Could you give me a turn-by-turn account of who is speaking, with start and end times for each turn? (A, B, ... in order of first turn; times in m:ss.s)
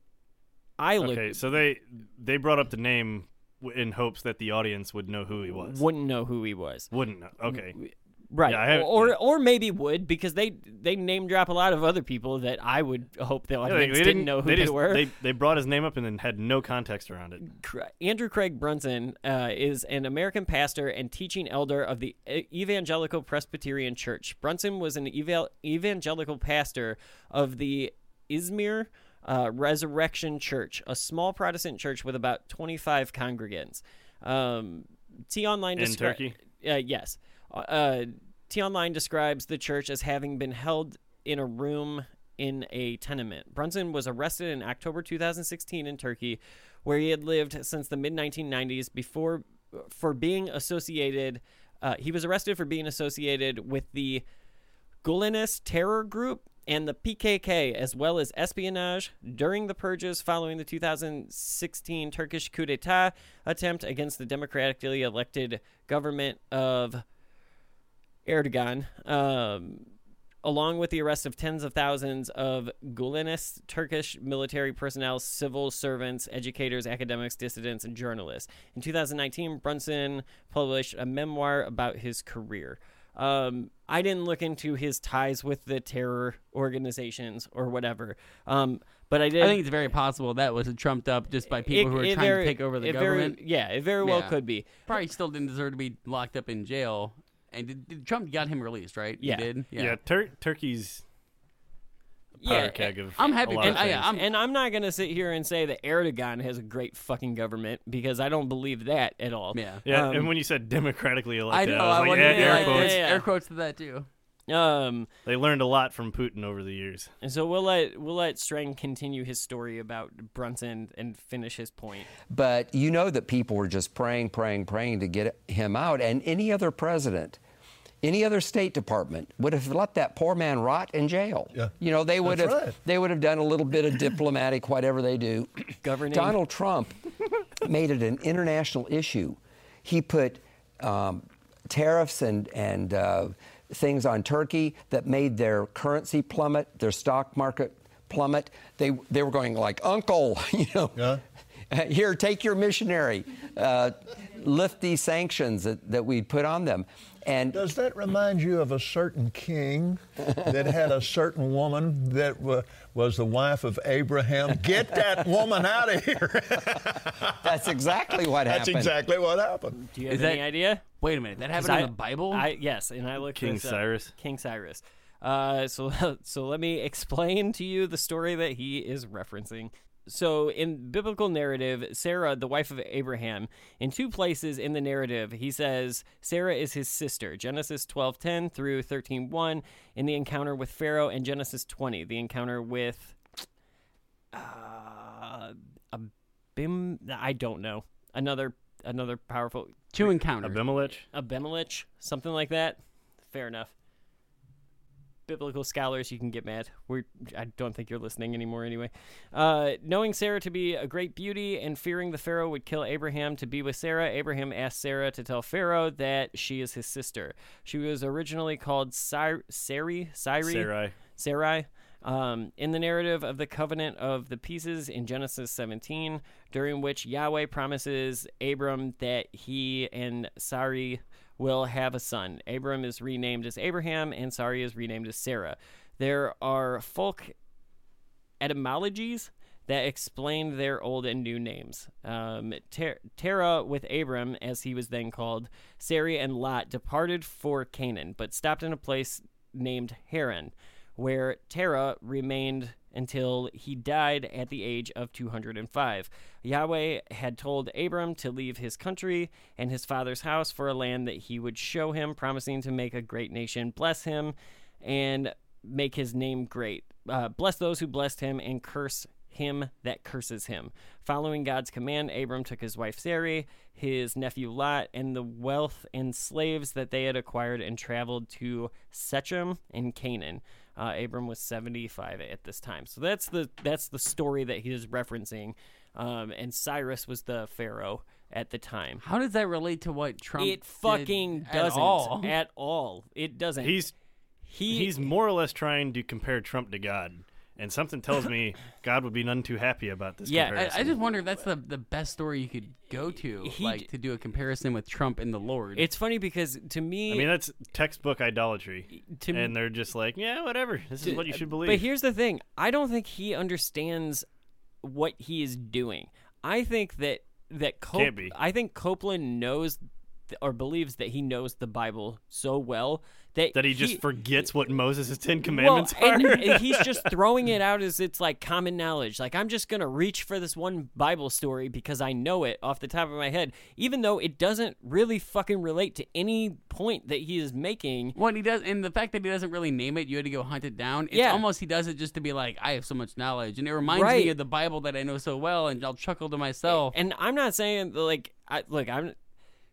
0:00.8-0:01.4 A
0:01.0-0:05.8 B
0:05.5-0:06.9 A
0:06.9-0:07.8 B
0:07.5-0:15.1 A
0:08.5-0:09.2 B
0:13.6-0:17.5 B
0:17.4-0:54.2 A
0:35.8-0:36.4 B
0:55.0-1:07.0 A
1:08.3-1:09.9 A
1:10.4-1:29.6 A
1:29.4-1:33.4 C
1:31.5-1:34.7 A
1:34.0-1:40.0 C
1:39.2-1:39.5 A
1:39.8-1:41.0 B
1:42.4-1:50.3 A
1:42.4-1:44.1 B
1:42.5-1:44.3 C
1:49.5-1:49.8 C
1:49.9-1:53.0 B
1:51.5-1:54.1 C
1:52.1-1:53.3 A
1:54.5-1:55.1 A
1:55.2-1:57.1 B
1:57.2-2:02.1 A
2:02.3-2:07.4 D
2:08.0-2:17.0 D
2:12.2-2:12.8 E
2:15.8-2:16.4 A
2:17.6-2:31.1 D
2:31.0-2:31.2 E
2:31.7-2:37.6 D
2:37.5-2:47.5 E
2:47.4-2:49.0 D
2:48.3-2:49.8 E
2:49.8-2:50.8 A
2:50.1-2:52.5 C
2:51.6-3:13.3 A
2:53.4-2:54.1 B
3:14.3-3:20.2 A
3:20.0-3:20.6 C
3:20.4-3:21.1 B
3:21.1-3:23.7 A
3:25.3-3:57.3 A
3:40.4-3:41.0 B
3:58.4-4:49.0 A
4:49.0-4:52.3 C
4:50.4-4:53.8 A
4:53.6-4:53.9 B
4:54.5-4:55.1 A
4:54.7-5:01.0 B
5:00.3-5:00.6 A
5:00.6-5:05.8 C
5:03.4-5:03.9 A
5:05.8-5:07.3 A
5:07.1-5:11.8 B
5:09.0-5:09.5 A
5:11.0-5:14.3 A
5:14.8-5:24.0 A
5:17.9-5:18.3 B
5:23.5-5:27.1 B
5:25.5-5:38.2 A
5:38.2-5:47.0 C
5:41.1-5:41.4 A
5:43.8-5:44.3 A
5:46.7-5:49.2 A